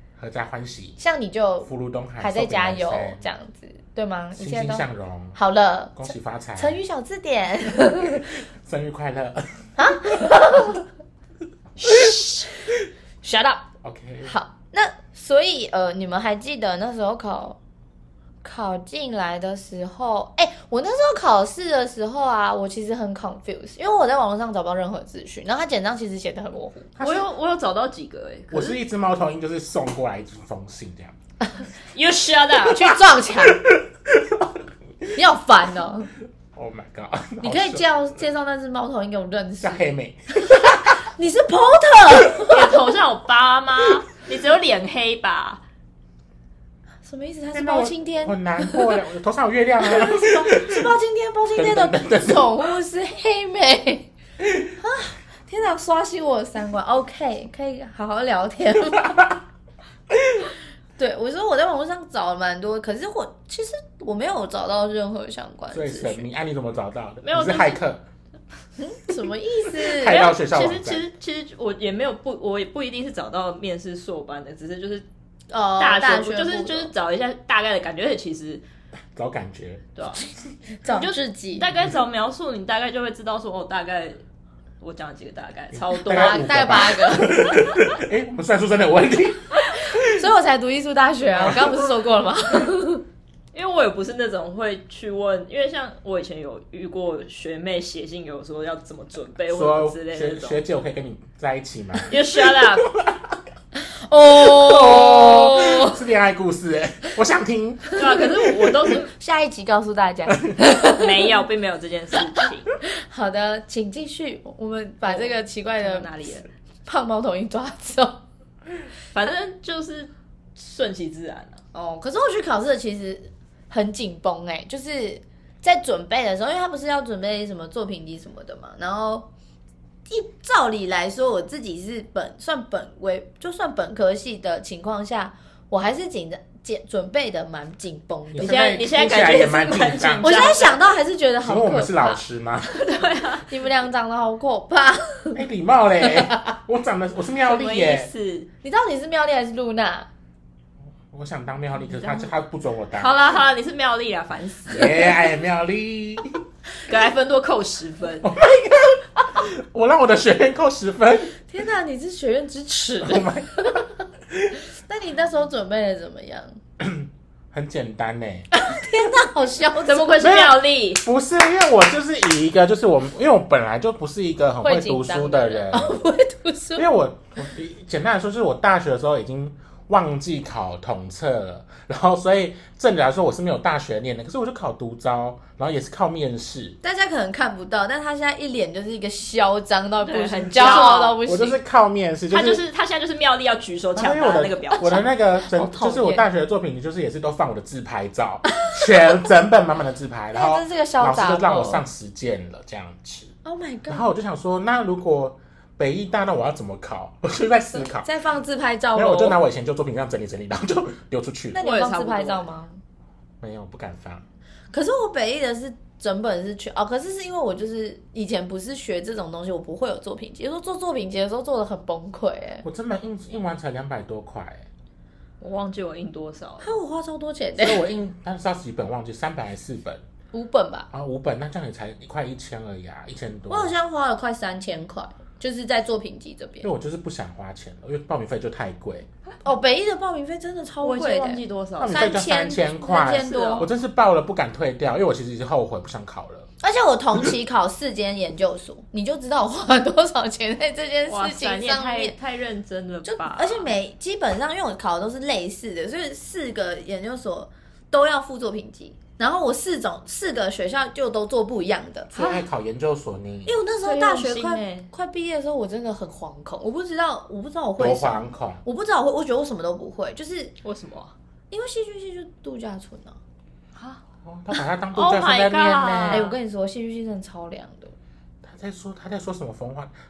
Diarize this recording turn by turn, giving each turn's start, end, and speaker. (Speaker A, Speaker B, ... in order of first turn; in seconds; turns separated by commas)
Speaker A: 0.2-1.0, Speaker B: 1.0-8.3, Speaker A: 1.6-3.2, Speaker A: 4.3-5.4, Speaker A: 6.0-6.8, Speaker A: 8.0-10.8, Speaker B: 9.8-10.8, Speaker C: 11.8-12.5, Speaker C: 13.2-13.6, Speaker A: 13.8-14.3, Speaker B: 14.2-17.6, Speaker B: 18.4-26.9, Speaker A: 27.0-27.3, Speaker C: 27.0-28.8, Speaker A: 28.5-31.1, Speaker C: 31.9-32.9, Speaker B: 32.6-33.6, Speaker A: 33.4-35.1, Speaker B: 35.1-36.1, Speaker A: 36.5-37.9, Speaker B: 37.4-39.8, Speaker A: 39.6-41.0, Speaker B: 40.5-42.8, Speaker C: 42.5-45.6, Speaker B: 47.0-49.0, Speaker A: 47.5-50.9, Speaker B: 49.8-54.1, Speaker A: 51.5-52.6, Speaker B: 54.8-59.3, Speaker B: 61.0-66.3, Speaker A: 65.7-68.0, Speaker C: 67.2-67.8, Speaker B: 68.8-70.3, Speaker A: 69.8-71.0, Speaker C: 70.0-75.0, Speaker B: 75.5-76.9, Speaker C: 75.8-78.6, Speaker A: 79.1-79.8, Speaker C: 80.0-80.2, Speaker B: 80.8-81.7, Speaker C: 80.9-84.2, Speaker C: 84.8-86.9, Speaker A: 85.7-90.0, Speaker B: 86.0-87.5, Speaker B: 89.9-93.0, Speaker A: 91.3-91.8, Speaker C: 93.5-100.6, Speaker A: 99.5-103.4, Speaker C: 102.1-102.9, Speaker B: 103.8-106.0, Speaker A: 104.3-108.5, Speaker C: 108.0-109.1, Speaker B: 108.8-111.3, Speaker C: 110.8-112.7, Speaker B: 112.8-116.1, Speaker C: 115.0-116.5, Speaker B: 116.8-118.2, Speaker C: 119.1-121.6, Speaker B: 121.7-129.3, Speaker B: 130.1-138.6, Speaker A: 138.3-140.3, Speaker C: 138.4-140.8, Speaker B: 140.2-142.2, Speaker A: 141.4-142.8, Speaker C: 142.7-143.5, Speaker B: 143.4-145.4, Speaker A: 145.3-148.1, Speaker B: 146.0-146.4, Speaker C: 147.4-148.5, Speaker B: 148.6-150.1, Speaker A: 151.1-153.1, Speaker C: 151.9-152.3, Speaker C: 153.0-155.2, Speaker A: 154.7-156.4, Speaker C: 156.9-158.3, Speaker A: 158.2-161.3, Speaker B: 161.5-163.8, Speaker A: 163.0-164.6, Speaker B: 164.7-166.6, Speaker A: 166.8-168.5, Speaker B: 168.5-170.4, Speaker C: 169.8-171.0, Speaker A: 170.2-175.9, Speaker B: 174.6-176.9, Speaker A: 176.8-186.8, Speaker B: 186.8-191.6, Speaker C: 190.0-191.2, Speaker A: 190.6-192.6, Speaker C: 192.3-195.1, Speaker A: 193.9-203.3, Speaker B: 195.4-196.2, Speaker B: 200.3-201.8, Speaker B: 203.4-204.1, Speaker A: 203.9-208.1, Speaker B: 207.8-209.4, Speaker A: 208.9-211.6, Speaker B: 211.5-212.8, Speaker C: 211.6-212.5, Speaker A: 213.4-214.2, Speaker B: 214.7-222.6, Speaker A: 222.6-224.7, Speaker C: 225.4-226.8, Speaker B: 226.6-227.8, Speaker A: 227.6-230.0, Speaker B: 230.3-230.9, Speaker A: 230.9-233.7, Speaker B: 233.5-236.7, Speaker A: 236.6-239.1, Speaker B: 239.4-243.7, Speaker C: 240.8-242.2, Speaker A: 241.8-246.5, Speaker C: 243.1-243.7, Speaker B: 246.6-252.1, Speaker C: 251.1-253.7, Speaker B: 253.0-262.3, Speaker A: 262.1-263.6, Speaker B: 263.4-270.5, Speaker C: 263.8-264.9, Speaker A: 267.8-268.6, Speaker C: 270.6-271.1, Speaker B: 271.5-273.2, Speaker C: 273.8-274.0, Speaker A: 274.2-276.3, Speaker C: 274.9-276.4, Speaker B: 276.1-277.9, Speaker A: 278.4-279.9